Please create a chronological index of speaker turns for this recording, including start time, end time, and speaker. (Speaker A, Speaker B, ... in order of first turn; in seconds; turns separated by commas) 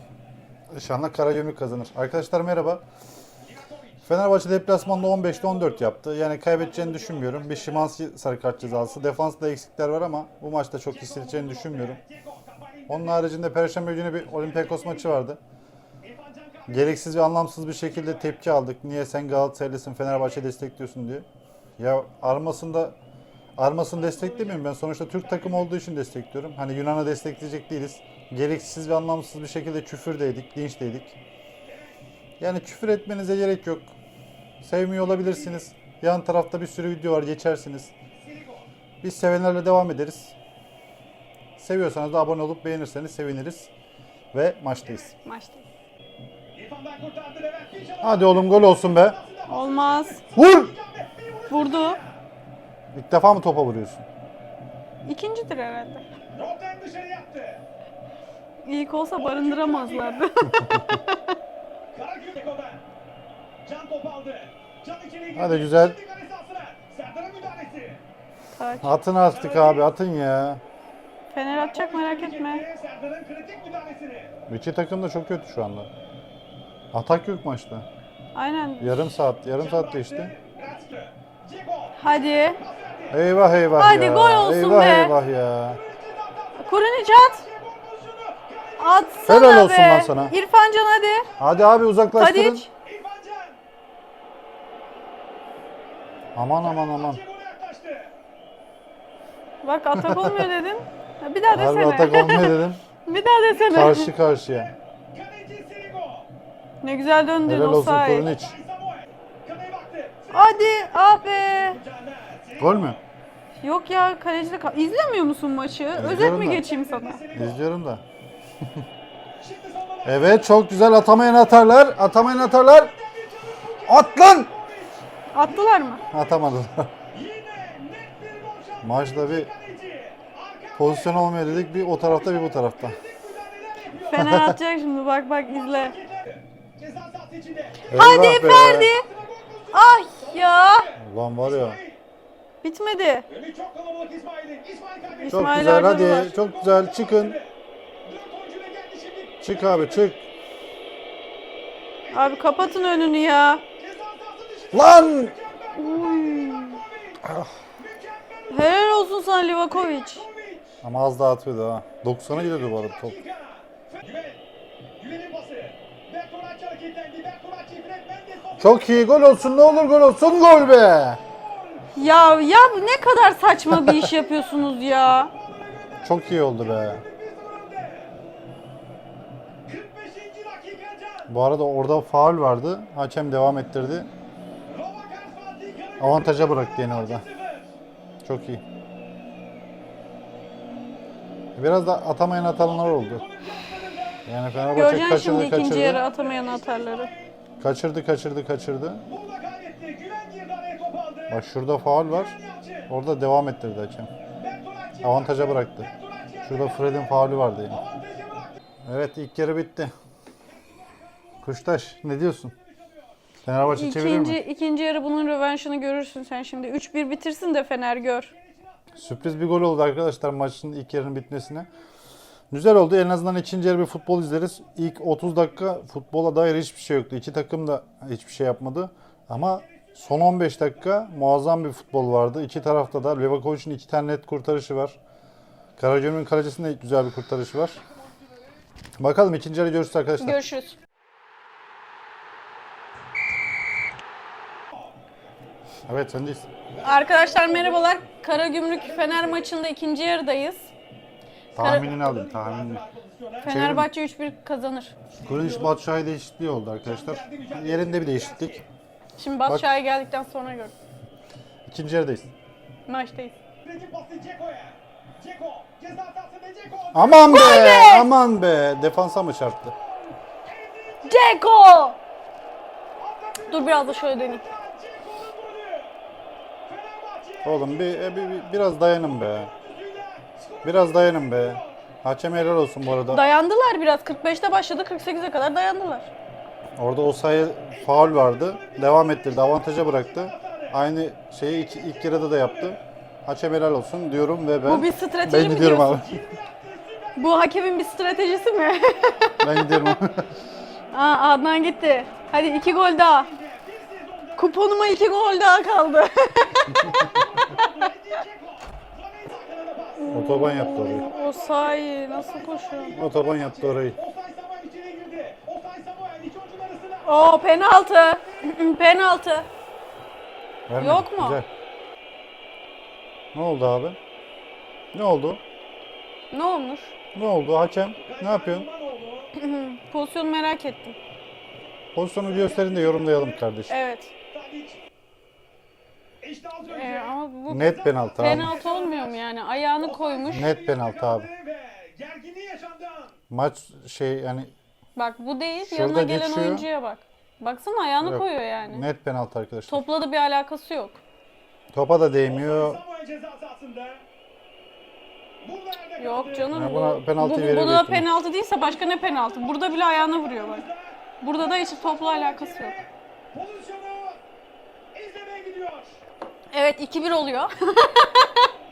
Speaker A: 0.7-2.8, Speaker B: 3.5-4.1, Speaker A: 4.1-12.0, Speaker B: 4.8-5.9, Speaker B: 6.6-7.9, Speaker B: 8.6-9.1, Speaker B: 10.9-13.3, Speaker A: 12.9-15.4, Speaker B: 14.3-15.1, Speaker B: 16.0-17.0, Speaker A: 16.7-21.3, Speaker B: 17.8-18.4, Speaker B: 20.1-20.5, Speaker A: 21.8-23.0, Speaker A: 23.6-31.2, Speaker B: 23.9-24.6, Speaker B: 25.2-25.7, Speaker B: 31.7-32.0, Speaker A: 32.4-34.0, Speaker A: 34.6-37.9, Speaker B: 35.1-35.5, Speaker B: 38.2-38.7, Speaker A: 39.0-40.4, Speaker A: 41.6-43.7, Speaker A: 44.3-45.1, Speaker B: 44.8-45.1, Speaker C: 45.2-45.6, Speaker B: 46.5-52.2, Speaker A: 48.0-49.2, Speaker C: 49.5-50.2, Speaker A: 50.4-50.7, Speaker C: 51.5-52.0, Speaker A: 52.9-54.1, Speaker C: 55.0-56.0, Speaker B: 56.3-57.6, Speaker C: 58.6-61.0, Speaker B: 59.2-60.5, Speaker B: 61.9-62.8, Speaker B: 63.6-68.0, Speaker A: 65.3-66.0, Speaker C: 68.5-69.0, Speaker A: 68.8-70.6, Speaker B: 69.3-69.9, Speaker C: 71.3-72.7, Speaker B: 71.5-74.3, Speaker A: 74.5-75.9, Speaker A: 76.9-77.9, Speaker C: 78.3-79.0, Speaker A: 78.8-80.3, Speaker B: 79.6-83.2, Speaker C: 82.0-82.6, Speaker A: 83.1-85.8, Speaker C: 83.8-85.2, Speaker B: 85.7-89.4, Speaker C: 86.6-87.4, Speaker C: 88.8-91.3, Speaker A: 89.3-90.3, Speaker B: 91.4-91.7, Speaker A: 91.4-92.7, Speaker C: 92.2-92.7, Speaker B: 92.8-93.6, Speaker A: 96.4-97.2, Speaker B: 96.6-98.1, Speaker C: 99.6-104.1, Speaker A: 99.9-100.5, Speaker A: 101.5-102.8, Speaker B: 103.5-106.3, Speaker A: 103.7-104.7, Speaker C: 106.8-108.3, Speaker A: 107.4-108.6, Speaker B: 108.1-113.0, Speaker C: 110.3-111.8, Speaker A: 112.6-113.0, Speaker C: 113.6-117.2, Speaker A: 115.9-116.7, Speaker B: 116.4-117.6, Speaker A: 117.3-118.0, Speaker B: 119.4-120.5, Speaker A: 120.0-122.9, Speaker B: 122.1-126.6, Speaker A: 123.9-124.5, Speaker C: 125.3-126.0, Speaker A: 126.1-126.9, Speaker B: 127.1-134.2, Speaker A: 128.8-129.5, Speaker A: 130.8-133.0, Speaker C: 134.1-136.0, Speaker A: 134.2-134.6, Speaker B: 135.5-142.0, Speaker A: 137.9-138.9, Speaker C: 137.9-139.1, Speaker C: 139.7-140.9, Speaker A: 141.0-141.8, Speaker C: 142.6-143.3, Speaker B: 143.3-150.2, Speaker C: 145.2-146.3, Speaker A: 145.3-147.4, Speaker A: 149.4-150.2, Speaker B: 152.1-157.2, Speaker C: 152.1-153.6, Speaker A: 154.7-155.3, Speaker C: 155.8-156.8, Speaker A: 157.2-157.5, Speaker B: 157.8-159.1, Speaker C: 158.5-160.3, Speaker B: 159.7-160.8, Speaker A: 160.8-163.2, Speaker B: 162.3-164.4, Speaker B: 165.0-169.9, Speaker A: 168.6-171.2, Speaker B: 171.1-171.8, Speaker C: 172.0-175.3, Speaker A: 173.7-174.1, Speaker B: 174.1-178.1, Speaker A: 176.0-177.0, Speaker B: 179.7-181.3, Speaker A: 181.3-184.1, Speaker B: 184.7-187.7, Speaker A: 186.0-187.2, Speaker A: 188.2-188.6, Speaker A: 191.6-193.2, Speaker B: 192.6-194.7, Speaker A: 194.3-196.0, Speaker C: 194.8-197.1, Speaker B: 195.7-197.4, Speaker A: 197.6-199.1, Speaker B: 199.1-201.4, Speaker A: 201.3-202.4, Speaker B: 202.1-202.9, Speaker A: 202.9-204.1, Speaker B: 204.4-207.2, Speaker A: 205.0-205.9, Speaker A: 206.4-207.8, Speaker B: 207.7-208.6, Speaker A: 208.9-209.9, Speaker B: 210.5-213.1, Speaker A: 211.4-212.5, Speaker A: 213.4-214.4, Speaker C: 213.7-218.3, Speaker B: 218.3-219.5, Speaker A: 219.0-221.7, Speaker A: 222.5-235.0, Speaker B: 229.7-231.1, Speaker B: 232.1-232.7, Speaker A: 235.8-237.8, Speaker A: 239.0-240.4, Speaker C: 240.2-240.8, Speaker A: 245.9-246.5, Speaker B: 246.8-248.0, Speaker C: 246.8-250.7, Speaker B: 248.6-249.5, Speaker C: 251.6-251.9, Speaker A: 251.6-252.8, Speaker B: 251.7-253.5, Speaker C: 253.4-255.0, Speaker A: 253.5-253.9, Speaker B: 255.1-255.8, Speaker A: 255.3-258.6, Speaker B: 256.8-258.7, Speaker C: 259.2-260.7, Speaker A: 261.7-262.3, Speaker C: 262.9-263.4, Speaker B: 263.6-267.7, Speaker A: 266.9-269.7, Speaker C: 267.3-268.1, Speaker B: 269.7-271.4, Speaker C: 271.1-272.0, Speaker B: 273.0-275.9, Speaker C: 273.5-274.4, Speaker B: 276.7-281.8, Speaker A: 277.4-279.5, Speaker A: 280.6-283.2, Speaker C: 283.1-286.1, Speaker A: 286.8-296.2, Speaker B: 287.7-290.8, Speaker B: 291.4-292.8, Speaker C: 294.7-295.9, Speaker B: 295.7-299.9, Speaker C: 297.2-299.8, Speaker A: 299.4-300.3, Speaker C: 300.9-303.3, Speaker B: 303.0-304.6, Speaker C: 304.4-306.9, Speaker B: 306.4-317.3, Speaker C: 310.0-312.9, Speaker A: 310.1-311.1, Speaker A: 312.9-314.0, Speaker C: 317.1-319.5, Speaker B: 317.9-318.6, Speaker A: 320.7-321.5, Speaker C: 320.8-321.4, Speaker A: 323.3-324.0, Speaker A: 324.9-325.4, Speaker C: 326.3-326.9, Speaker A: 327.1-328.7, Speaker B: 328.0-329.3, Speaker C: 329.3-331.0, Speaker A: 331.9-333.8, Speaker B: 332.2-333.5, Speaker C: 333.7-334.1, Speaker B: 334.3-334.8, Speaker B: 336.2-339.2, Speaker C: 336.7-340.5, Speaker A: 337.5-338.6, Speaker B: 339.8-343.2, Speaker A: 340.3-341.3, Speaker A: 343.3-344.5, Speaker C: 345.0-348.9, Speaker A: 345.6-346.7, Speaker A: 348.0-349.8, Speaker C: 349.7-351.0, Speaker A: 351.7-352.8, Speaker B: 352.2-354.0, Speaker B: 355.4-356.5, Speaker C: 356.0-360.6, Speaker A: 356.5-358.1, Speaker B: 358.6-364.2, Speaker C: 361.2-362.8, Speaker B: 364.9-366.0, Speaker C: 366.5-368.5